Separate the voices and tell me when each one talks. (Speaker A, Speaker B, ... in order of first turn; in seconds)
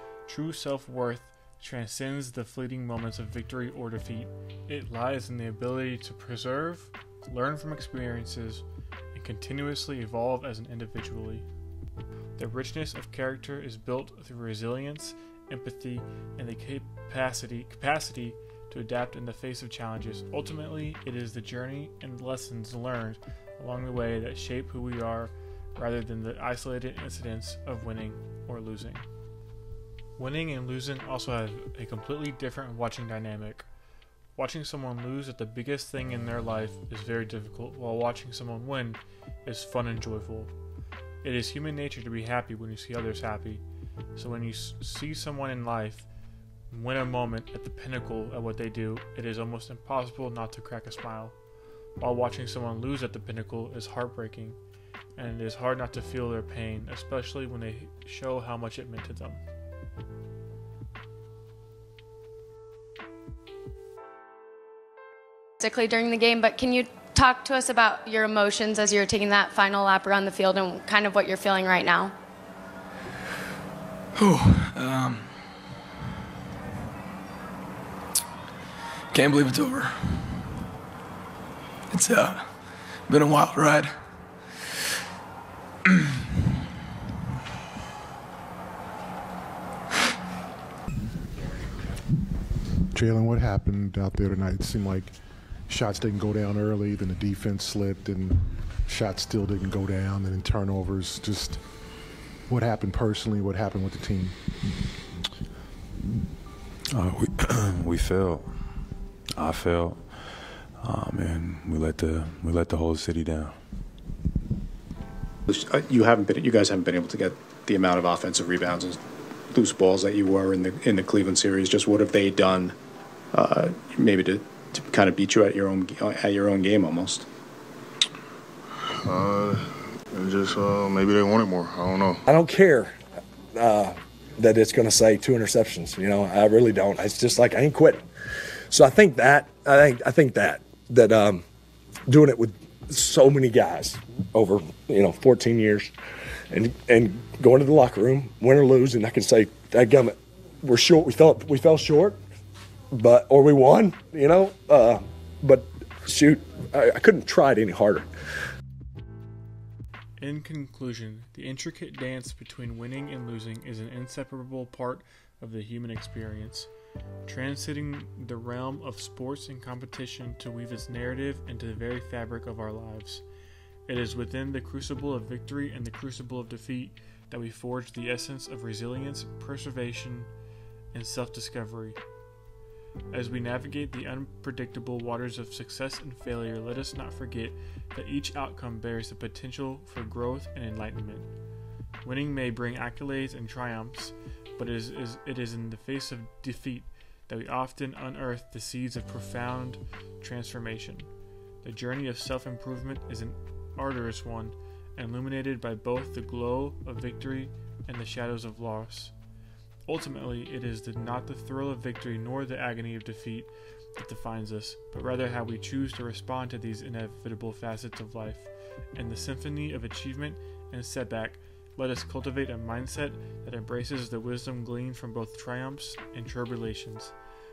Speaker A: 0.2-11.5, 12.4-29.1, 30.2-33.7, 34.4-40.5, 41.2-46.1, 46.7-51.4, 52.0-54.6, 55.1-59.4, 160.2-166.7, 167.2-173.2, 173.9-180.3, 180.9-182.0, 183.1-191.3, 192.0-201.1, 201.6-209.1, 209.9-227.1
Speaker B: 65.6-72.1
Speaker C: 74.2-75.3, 79.1-80.2, 81.9-82.5, 83.1-83.9
Speaker D: 92.9-95.1, 95.7-101.6, 102.5-104.3
Speaker E: 106.9-108.8, 109.4-113.6
Speaker F: 115.5-119.0, 119.5-122.8, 123.3-127.2
Speaker G: 129.1-129.6, 130.1-132.2
Speaker H: 132.3-132.9, 133.5-138.0, 138.7-141.4, 142.1-145.9, 146.5-152.2, 152.9-158.1